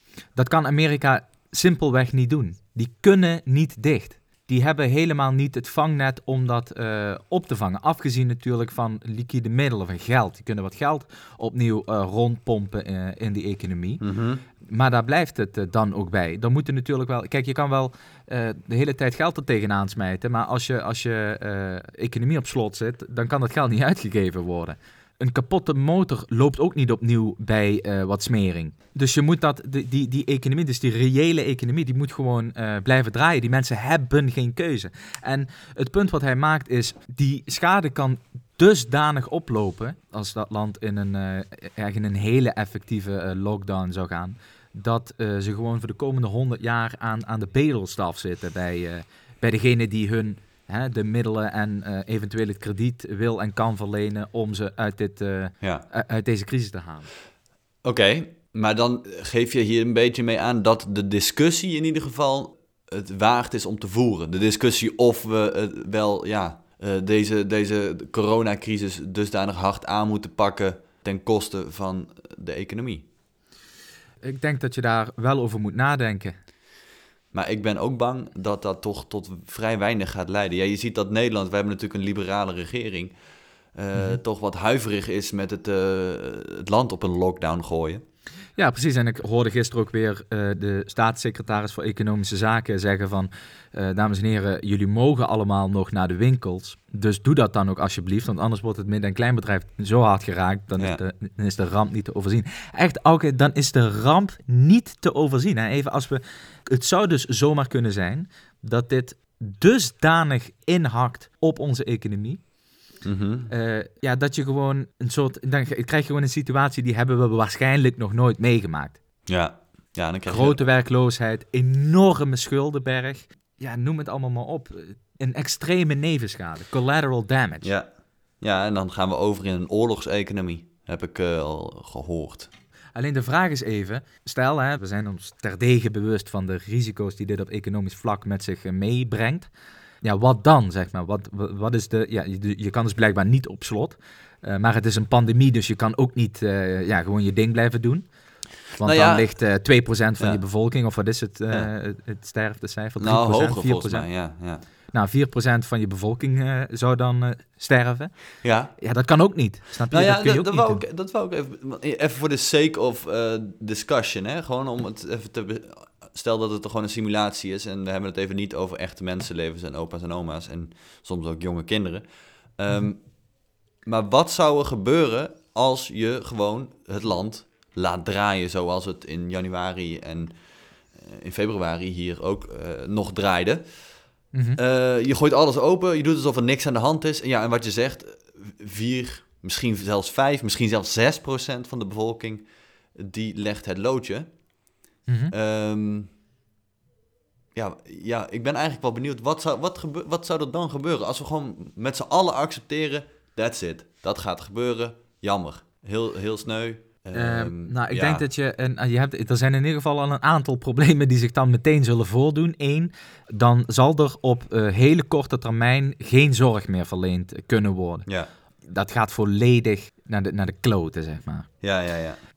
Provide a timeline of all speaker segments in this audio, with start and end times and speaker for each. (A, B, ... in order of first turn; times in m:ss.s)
0:00.3-0:14.0 A
0:14.0-0:14.4 B
0:14.6-0:57.1 A
0:55.6-0:55.9 B
0:57.8-1:13.0 B
1:14.2-1:16.3 A
1:17.3-1:23.2 B
1:23.8-1:28.0 B
1:24.0-1:24.2 A
1:28.6-1:52.4 A
1:40.8-1:41.0 B
1:53.0-1:53.5 B
1:53.5-1:59.0 A
1:59.3-2:00.6 B
2:00.3-2:07.7 A
2:07.6-2:07.9 B
2:08.4-2:12.5 B
2:13.0-2:19.5 A
2:20.0-2:28.1 A
2:28.7-2:34.3 A
2:28.8-2:29.5 B
2:30.2-2:30.4 B
2:33.0-2:34.6 B
2:34.9-2:40.8 A
2:38.4-2:38.8 B
2:39.9-2:52.0 B
2:52.6-2:53.3 B
2:53.8-3:00.3 B
3:00.9-3:14.6 B
3:04.3-3:04.6 A
3:15.1-3:15.3 A
3:15.3-3:16.1 B
3:17.6-3:28.2 B
3:27.1-3:38.1 A
3:38.6-3:41.5 A
3:41.6-3:42.2 B